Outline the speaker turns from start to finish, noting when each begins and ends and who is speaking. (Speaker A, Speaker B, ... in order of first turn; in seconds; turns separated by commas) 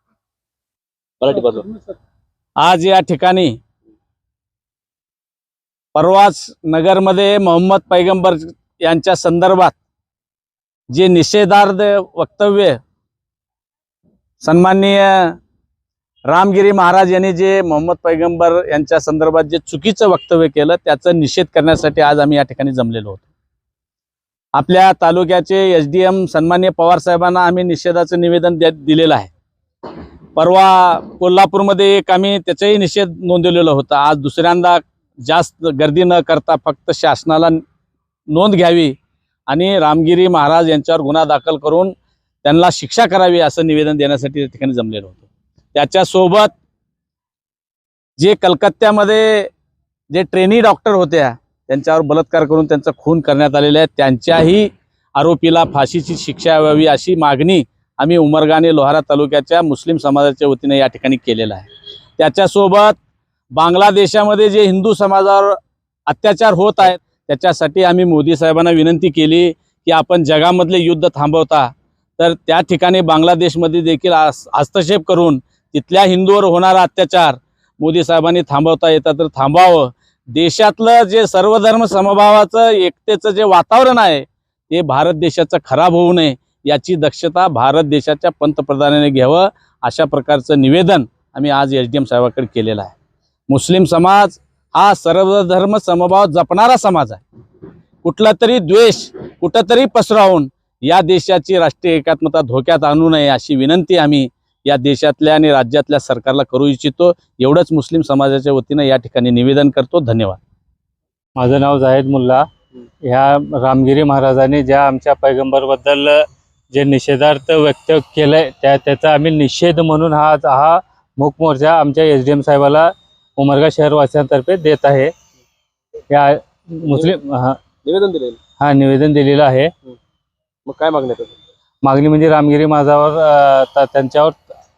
Speaker A: 1.2-1.9, Speaker B: 2.6-3.5, Speaker B: 5.9-9.8, Speaker B: 10.9-12.8, Speaker B: 14.4-15.3, Speaker B: 16.3-23.3, Speaker B: 24.6-29.3, Speaker B: 30.4-37.6, Speaker B: 38.3-38.9, Speaker B: 39.5-41.9, Speaker B: 42.4-46.5, Speaker B: 48.2-49.5, Speaker B: 50.1-61.7, Speaker B: 62.2-63.0, Speaker B: 63.5-65.5, Speaker B: 66.1-92.9, Speaker B: 93.5-97.2, Speaker B: 98.0-110.4, Speaker C: 111.4-112.4, Speaker C: 113.0-125.1, Speaker C: 126.1-127.6, Speaker A: 126.8-127.1, Speaker A: 127.8-128.4, Speaker C: 128.6-129.7, Speaker A: 130.7-131.3, Speaker C: 131.8-134.4